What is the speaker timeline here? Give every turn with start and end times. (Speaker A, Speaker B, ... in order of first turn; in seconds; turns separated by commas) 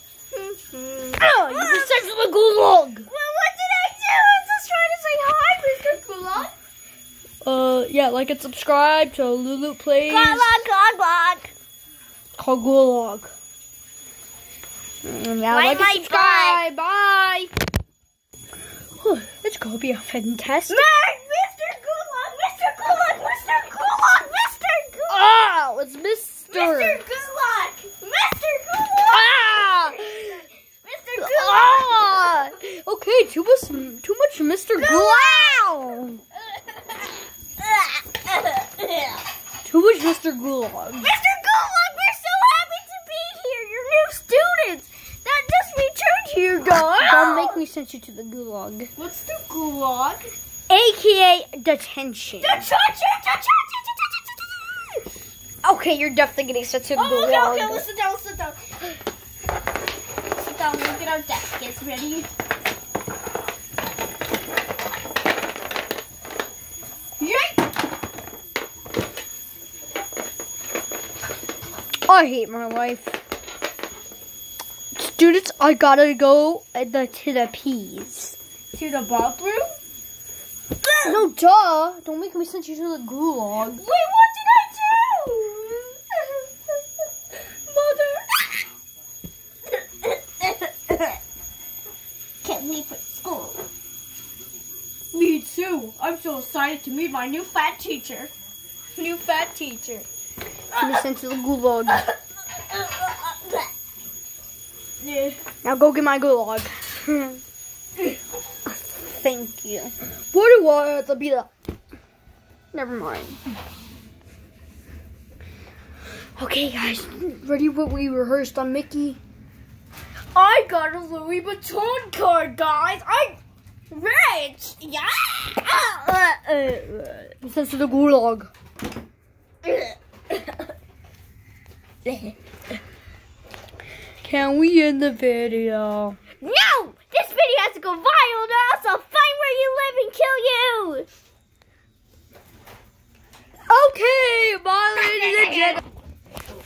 Speaker A: 0.3-2.0, Speaker B: 1.2-3.1, Speaker A: 3.1-6.5, Speaker B: 7.4-10.6, Speaker A: 10.1-11.5, Speaker B: 12.4-13.3, Speaker B: 15.0-17.5, Speaker A: 15.5-16.6, Speaker B: 19.0-20.9, Speaker A: 20.7-25.2, Speaker B: 25.1-27.0, Speaker A: 26.5-32.5, Speaker B: 29.1-30.4, Speaker B: 31.2-36.2, Speaker A: 34.8-39.2, Speaker B: 39.6-41.1, Speaker A: 41.0-47.6, Speaker B: 47.0-48.9, Speaker A: 49.0-50.2, Speaker B: 50.7-52.6, Speaker A: 52.4-55.0, Speaker B: 55.6-57.9, Speaker A: 56.9-59.0, Speaker A: 60.4-62.3, Speaker A: 67.2-67.7, Speaker B: 72.1-73.2, Speaker B: 75.0-78.4, Speaker A: 78.7-79.8, Speaker B: 81.0-83.8, Speaker A: 83.7-86.8, Speaker A: 87.7-88.5, Speaker A: 89.7-91.2, Speaker A: 92.4-93.7, Speaker A: 95.1-98.3, Speaker A: 99.0-100.1, Speaker A: 100.7-101.0, Speaker B: 100.8-102.0, Speaker A: 101.9-103.7, Speaker A: 105.0-105.4, Speaker B: 105.6-107.4, Speaker B: 108.7-111.5, Speaker B: 112.7-113.4, Speaker B: 116.4-119.2, Speaker A: 120.3-127.3, Speaker B: 127.4-128.5, Speaker A: 129.6-130.7, Speaker A: 132.1-132.4, Speaker B: 134.2-136.2, Speaker A: 136.4-141.1, Speaker B: 143.7-145.8, Speaker A: 145.1-145.8